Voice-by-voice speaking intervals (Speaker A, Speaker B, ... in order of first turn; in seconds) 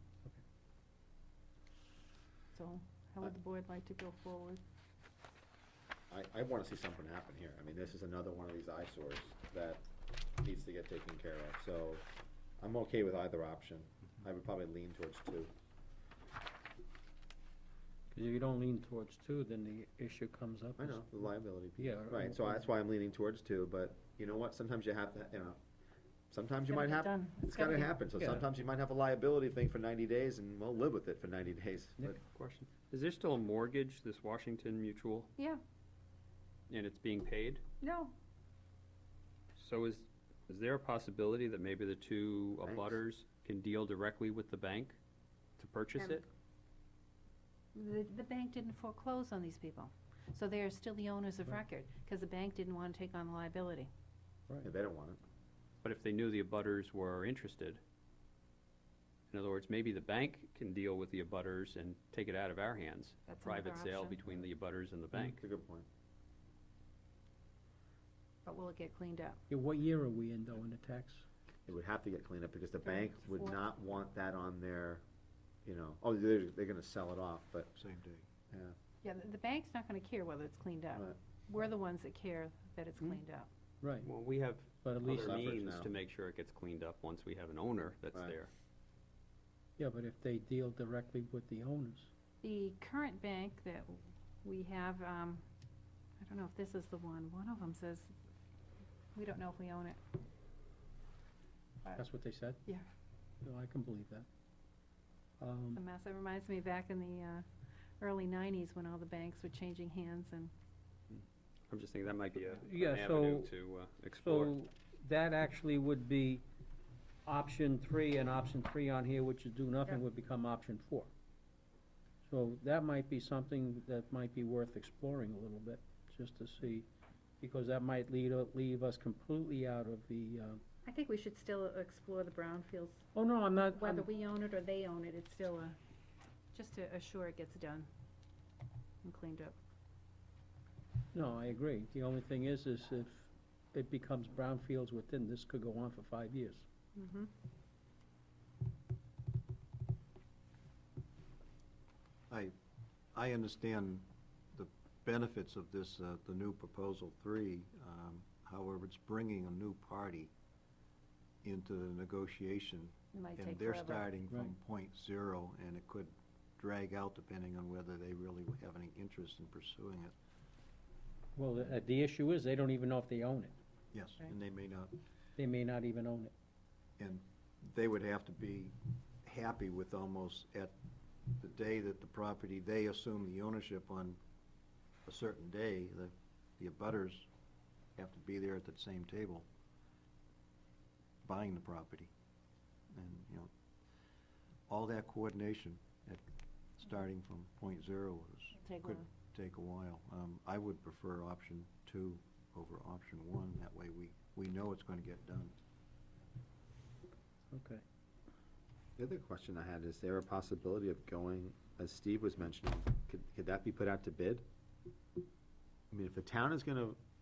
Speaker A: 2.5-4.6, 26.7-27.9, 37.8-38.1, 47.8-53.9, 63.3-64.3, 68.5-69.4, 72.8-73.7, 79.0-83.5, 92.4-95.4, 96.2-98.1, 99.2-100.0, 101.8-102.1, 105.7-107.5, 108.0-110.5, 130.8-133.1, 133.6-135.8, 136.5-137.9, 139.0-139.6, 146.9-147.3, 163.1-164.1, 198.7-199.0
Speaker B: 6.1-12.1, 12.6-15.5, 20.8-25.6, 26.3-32.2, 42.6-43.0, 54.6-55.2, 65.2-65.9, 71.7-75.0, 75.7-77.7, 78.5-78.8, 85.0-85.9, 209.0-214.4, 215.9-217.0
Speaker C: 18.1-22.6, 69.5-71.2, 83.8-84.1, 84.8-85.4, 89.8-92.1, 102.0-102.6, 103.4-104.3, 105.4-105.8, 112.6-113.5, 114.2-116.4, 117.2-121.1, 122.2-126.9, 127.4-130.6, 133.1-134.1, 141.1-146.7, 171.4-173.5, 175.4-176.3, 207.5-207.8
Speaker D: 32.3-35.3, 36.7-37.6, 39.6-45.0, 45.6-46.3, 55.8-57.8, 59.3-65.4, 84.0-88.5, 111.1-114.5
Speaker E: 77.7-78.3, 152.3-152.5, 153.1-160.3, 161.4-170.1, 173.9-174.9, 177.0-180.7, 181.3-184.2, 185.1-187.3, 188.0-189.5, 191.2-192.1, 192.9-193.5, 194.7-196.2, 196.8-205.6